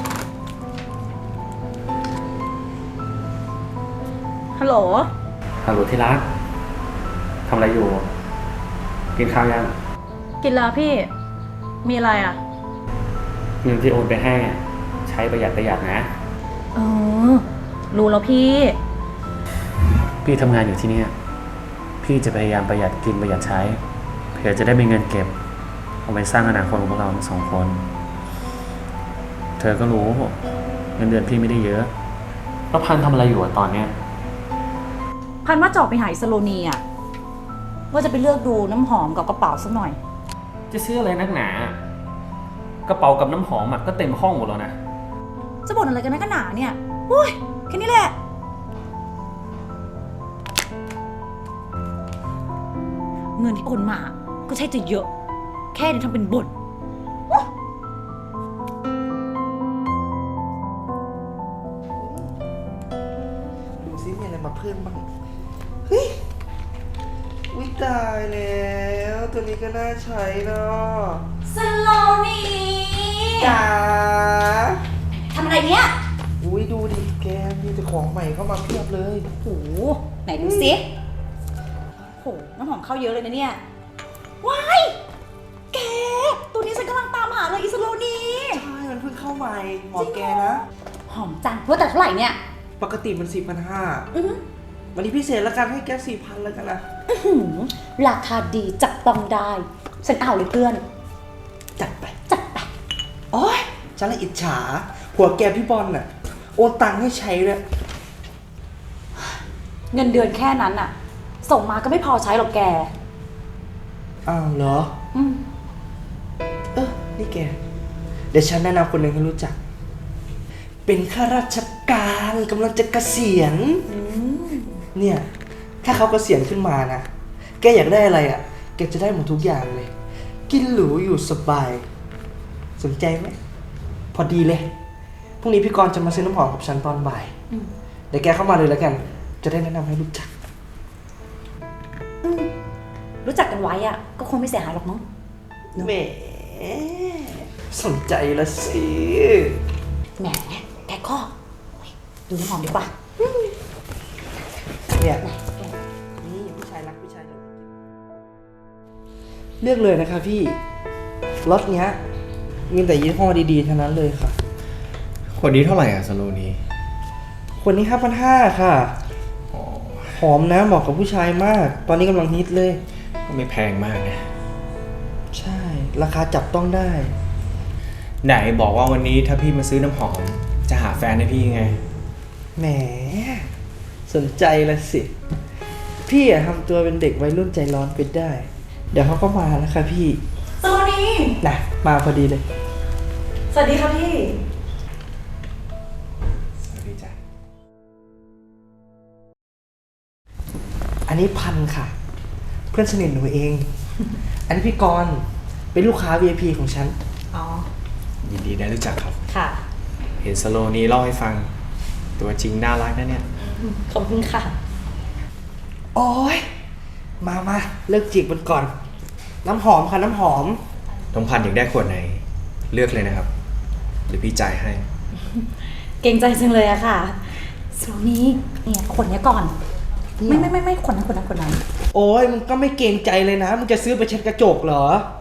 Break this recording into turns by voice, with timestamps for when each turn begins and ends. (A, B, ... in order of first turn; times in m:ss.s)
0:04.6-0:05.1 A
0:05.6-0:06.3 B
0:07.5-0:08.1 B
0:09.2-0:09.7 B
0:10.4-0:11.1 A
0:11.8-0:12.4 A
0:13.6-0:16.1 B
0:16.8-0:18.8 A
0:20.2-0:21.1 B
0:22.0-0:23.8 B
0:24.3-0:25.3 B
0:26.0-0:27.8 B
0:29.6-0:30.4 B
0:31.0-0:31.9 B
0:32.7-0:33.9 B
0:35.4-0:36.8 A
0:37.9-0:40.0 A
0:40.7-0:41.8 B
0:42.8-0:44.8 B
0:45.7-0:48.2 A
0:53.4-0:55.1 A
0:55.7-0:56.5 A
1:02.0-1:02.3 C
1:03.8-1:05.1 C
1:05.9-1:06.2 C
1:07.5-1:11.3 C
1:11.5-1:13.6 A
1:13.4-1:14.8 C
1:15.3-1:16.0 A
1:16.4-1:19.3 C
1:19.4-1:20.9 A
1:20.4-1:20.7 C
1:22.2-1:23.6 A
1:24.4-1:25.0 A
1:25.7-1:28.6 A
1:28.5-1:30.6 C
1:30.0-1:30.3 A
1:31.1-1:32.4 A
1:32.8-1:34.1 C
1:34.1-1:34.4 A
1:34.9-1:36.8 C
1:37.1-1:40.8 A
1:41.8-1:42.1 C
1:42.3-1:42.7 A
1:43.3-1:47.6 C
1:49.9-1:52.9 A
1:54.3-1:55.0 C
1:55.1-1:55.4 A
1:56.8-1:57.6 C
1:58.3-1:59.6 C
2:00.9-2:03.9 C
2:03.9-2:04.8 A
2:04.9-2:05.3 C
2:05.8-2:07.1 C
2:07.6-2:09.9 C
2:10.5-2:11.9 C
2:12.8-2:13.4 C
2:14.1-2:14.7 C
2:15.4-2:17.3 C
2:18.1-2:20.3 C
2:22.2-2:22.5 A
2:23.2-2:25.0 A
2:25.8-2:29.6 C
2:30.2-2:33.0 A
2:35.0-2:35.2 C
2:35.2-2:35.8 A
2:36.2-2:37.7 C
2:39.6-2:40.6 C
2:41.4-2:42.0 C
2:42.7-2:44.4 C
2:45.4-2:46.6 D
2:47.6-2:49.0 C
2:49.5-2:50.2 D
2:50.2-2:52.8 C
2:53.3-2:54.3 D
2:55.3-2:57.2 C
2:58.2-3:01.8 D
3:02.6-3:03.5 C
3:04.1-3:05.1 C
3:06.1-3:10.2 C
3:10.6-3:11.4 A
3:11.4-3:12.4 C
3:13.5-3:14.4 A
3:16.7-3:17.2 D
3:21.1-3:21.9 C
3:22.7-3:23.7 C
3:24.5-3:27.0 C
3:27.3-3:27.7 A
3:28.2-3:29.2 D
3:29.3-3:29.6 A
3:30.2-3:31.5 D
3:32.2-3:33.3 D
3:33.6-3:34.6 A
3:36.0-3:36.4 C
3:37.2-3:38.7 C
3:39.4-3:40.6 C
3:41.1-3:43.3 D
3:44.1-3:44.8 D
3:46.0-3:49.6 A
3:50.2-3:50.5 C
3:50.2-3:51.6 A
3:51.9-3:55.1 C